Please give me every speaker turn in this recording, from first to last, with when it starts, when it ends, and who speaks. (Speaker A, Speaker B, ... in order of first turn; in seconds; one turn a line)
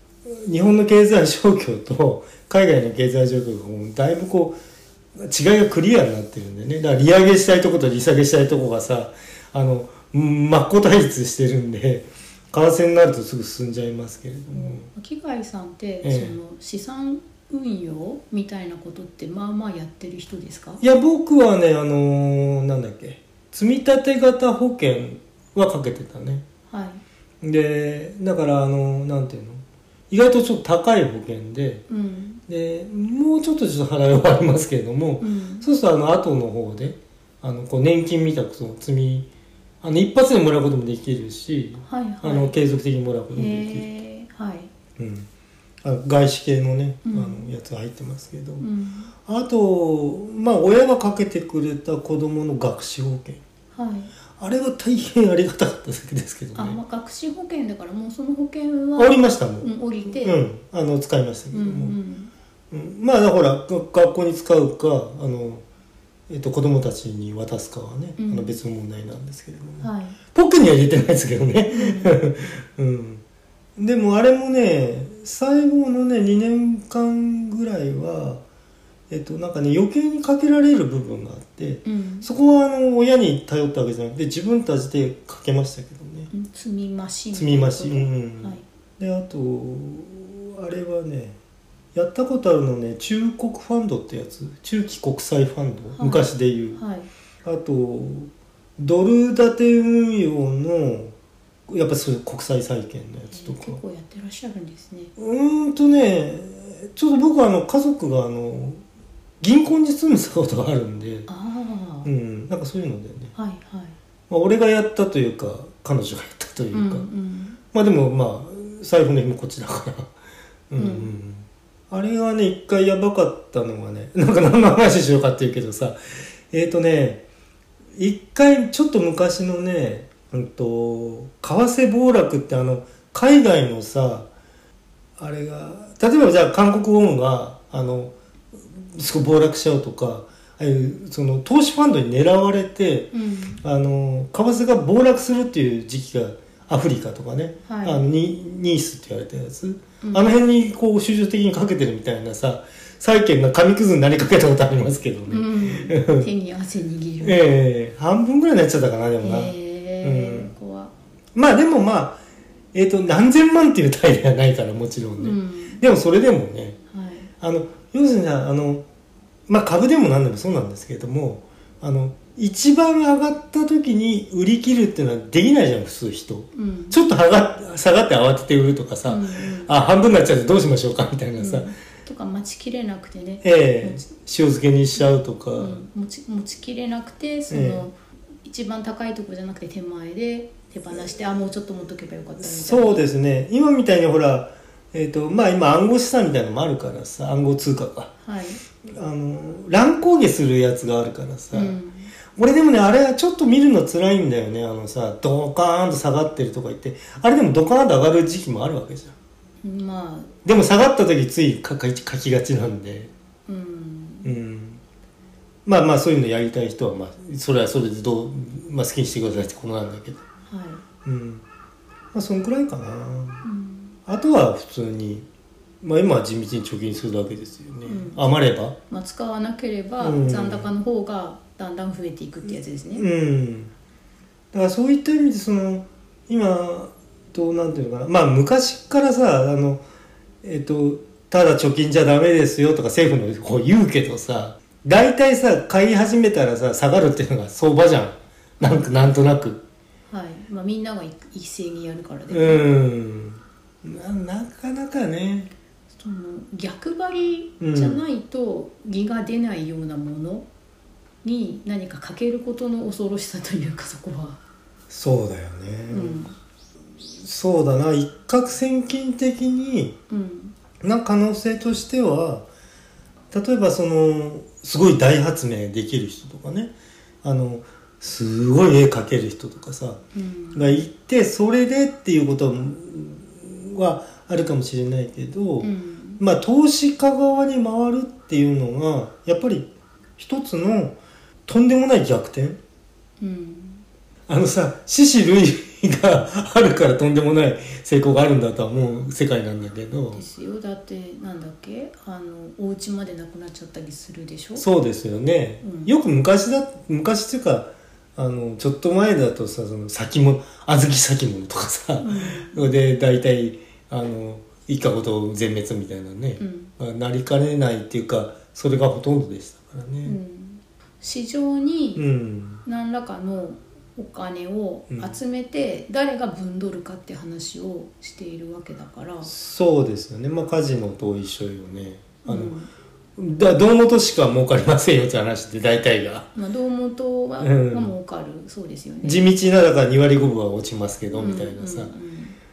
Speaker A: 0.2-4.6
Speaker A: 5.2-14.9
Speaker B: 14.5-20.8
Speaker A: 16.0-16.4
Speaker A: 20.8-26.4
Speaker B: 26.7-27.0
Speaker A: 27.4-31.8
Speaker B: 31.9-32.4
Speaker A: 32.5-39.3
Speaker B: 35.2-35.7
Speaker A: 39.8-43.8
Speaker B: 41.8-42.6
Speaker B: 43.3-44.7
Speaker A: 45.0-45.3
Speaker A: 45.8-48.6
Speaker B: 47.0-47.5
Speaker B: 48.6-49.1
Speaker A: 49.2-53.4
Speaker B: 53.7-54.1
Speaker A: 54.4-56.8
Speaker B: 56.5-60.4
Speaker A: 59.0-61.9
Speaker B: 61.5-62.3
Speaker A: 62.7-65.6
Speaker A: 66.3-73.2
Speaker B: 68.2-68.5
Speaker B: 69.8-70.2
Speaker B: 71.7-72.2
Speaker A: 73.8-78.4
Speaker A: 79.1-86.3
Speaker B: 81.8-82.3
Speaker B: 86.3-88.6
Speaker A: 87.3-91.4
Speaker A: 91.9-96.8
Speaker B: 96.0-97.1
Speaker A: 97.4-101.1
Speaker A: 101.7-103.8
Speaker B: 103.3-105.1
Speaker A: 105.2-108.8
Speaker A: 109.4-111.3
Speaker B: 111.3-112.1
Speaker A: 112.0-113.3
Speaker B: 113.3-114.0
Speaker A: 114.3-117.0
Speaker B: 116.7-117.6
Speaker A: 117.7-120.1
Speaker A: 120.7-126.0
Speaker B: 120.8-121.1
Speaker A: 126.5-127.2
Speaker A: 128.0-134.3
Speaker A: 135.2-156.3
Speaker B: 143.1-143.6
Speaker B: 147.7-148.0
Speaker B: 150.0-150.3
Speaker B: 155.3-157.4
Speaker A: 157.2-160.5
Speaker B: 159.2-160.9
Speaker A: 161.3-162.2
Speaker A: 162.7-166.8
Speaker B: 165.2-165.8
Speaker B: 166.9-167.3
Speaker A: 167.4-168.8
Speaker A: 169.5-181.7
Speaker B: 176.5-177.0
Speaker B: 179.1-179.7
Speaker B: 181.4-184.0
Speaker A: 183.4-185.8
Speaker B: 184.9-193.0
Speaker A: 187.5-187.8
Speaker A: 192.4-198.1
Speaker B: 198.2-198.6
Speaker A: 198.8-201.8
Speaker B: 201.5-202.1
Speaker A: 202.3-209.1
Speaker B: 209.6-210.3
Speaker A: 210.4-213.1
Speaker B: 213.5-214.3
Speaker A: 214.2-214.8
Speaker A: 215.7-220.2
Speaker B: 220.5-220.8
Speaker A: 221.0-221.4
Speaker A: 222.1-223.4
Speaker B: 223.4-224.0
Speaker A: 224.1-225.2
Speaker A: 225.8-228.8
Speaker B: 227.8-228.2
Speaker B: 228.9-233.1
Speaker A: 230.0-230.7
Speaker A: 232.5-233.7
Speaker A: 234.5-239.8
Speaker A: 240.4-249.6
Speaker B: 248.6-248.9
Speaker B: 250.1-252.7
Speaker A: 252.3-255.5
Speaker B: 255.9-260.4
Speaker A: 257.6-258.0
Speaker B: 261.2-264.4
Speaker A: 264.9-266.2
Speaker B: 265.9-266.3
Speaker A: 267.0-270.0
Speaker B: 270.1-270.5
Speaker A: 270.8-272.5
Speaker A: 273.3-280.0
Speaker B: 280.1-280.8
Speaker A: 280.5-292.6
Speaker B: 285.6-286.2
Speaker B: 293.2-293.8
Speaker A: 294.3-300.2
Speaker B: 300.1-304.6
Speaker A: 304.6-320.2
Speaker B: 305.6-305.9
Speaker B: 312.0-312.7
Speaker B: 316.4-316.7
Speaker B: 320.0-322.0
Speaker A: 321.9-322.6
Speaker B: 322.6-329.3
Speaker A: 329.2-332.5
Speaker B: 332.2-332.7
Speaker A: 333.2-336.3
Speaker B: 336.3-339.2
Speaker A: 337.4-337.9
Speaker A: 339.0-341.9
Speaker B: 341.1-342.4